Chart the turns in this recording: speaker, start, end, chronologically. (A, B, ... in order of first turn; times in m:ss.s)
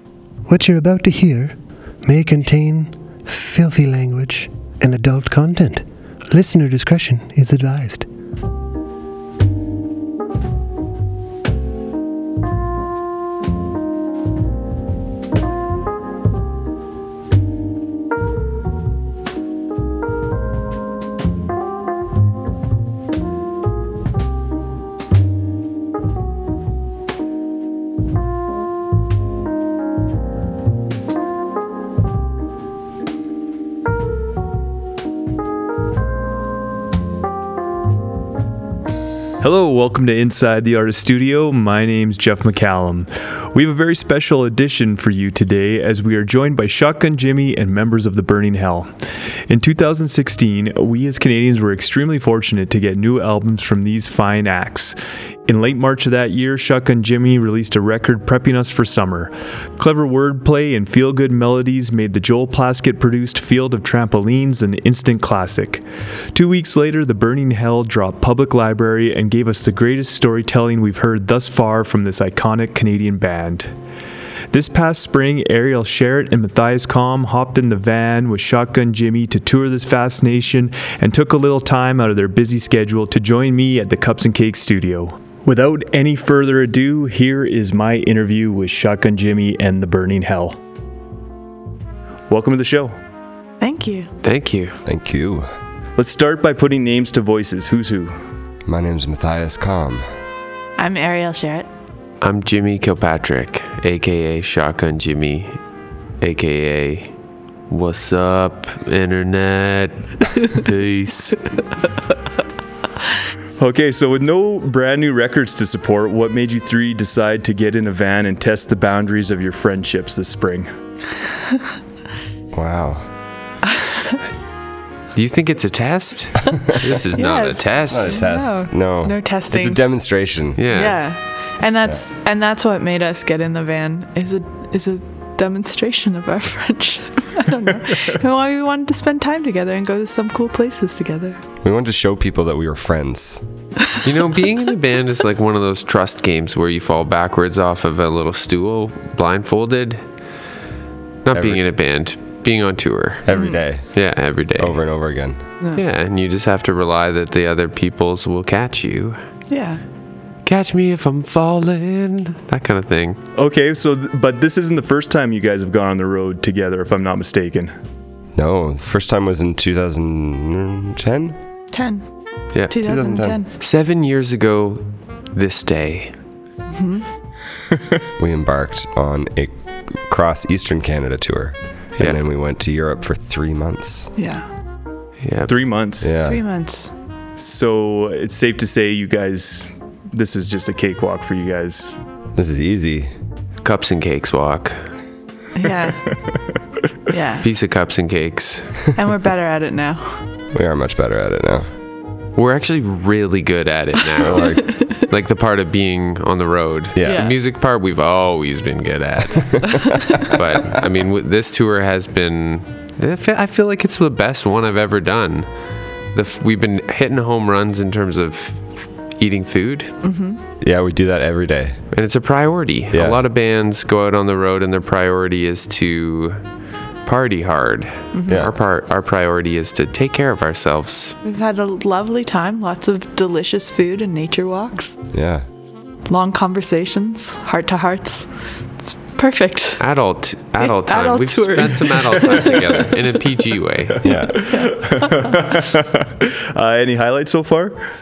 0:00.5-0:08.1 A
0:39.4-0:48.9 B
0:49.5-0:55.0 B
0:55.5-1:13.7 B
1:14.5-1:30.6 B
1:32.3-1:33.0 B
1:33.6-1:34.1 C
1:34.2-1:34.8 D
1:34.8-1:35.5 E
1:36.0-1:38.2 B
1:38.7-1:40.0 E
1:40.8-1:41.7 C
1:42.2-1:45.6 D
1:46.2-1:47.1 D
1:47.7-1:51.5 D
1:53.6-2:00.7 B
2:02.5-2:03.0 E
2:05.2-2:08.2 D
2:07.2-2:09.8 C
2:07.9-2:10.6 E
2:10.6-2:11.0 D
2:10.7-2:21.4 C
2:21.6-2:23.4 E
2:24.0-2:30.0 D
2:31.2-2:33.3 D
2:31.3-2:31.6 E
2:33.3-2:33.9 E
2:33.3-2:33.6 C
2:33.9-2:34.8 D
2:34.6-2:35.4 E
2:35.8-2:39.2 D
2:39.5-2:39.8 C
2:40.4-2:43.2 D
2:43.4-2:47.7 B
2:48.4-2:51.4 E
2:51.7-2:52.1 C
2:52.7-2:53.5 C
2:52.7-2:53.4 E
2:53.6-2:56.1 D
2:56.7-2:57.0 C
2:58.2-3:04.1 E
3:04.2-3:04.5 C
3:05.2-3:05.5 D
3:05.5-3:06.1 B
3:06.0-3:06.4 E
3:06.2-3:06.9 C
3:07.4-3:11.9 B
3:12.4-3:13.1 E
3:13.6-3:14.8 D
3:15.6-3:16.0 C
3:17.1-3:17.5 C
3:17.4-3:18.8 D
3:19.0-3:20.2 C
3:20.5-3:21.7 E
3:22.4-3:35.5 D
3:24.2-3:24.7 E
3:24.4-3:24.9 C
3:27.0-3:27.2 E
3:27.0-3:27.4 C
3:29.5-3:29.8 E
3:29.8-3:30.3 C
3:36.1-3:38.7 D
3:39.2-3:40.0 D
3:40.0-3:40.4 C
3:40.6-3:41.8 E
3:41.9-3:46.4 D
3:42.9-3:43.2 E
3:47.0-3:51.2 D
3:48.1-3:48.4 C
3:51.2-3:55.0 C
3:55.1-3:55.4 E
3:56.1-3:58.3 C
3:58.8-3:59.8 C
3:59.8-4:04.2 D
4:00.6-4:02.9 C
4:04.0-4:04.5 E
4:04.1-4:07.8 B
4:04.3-4:05.5 C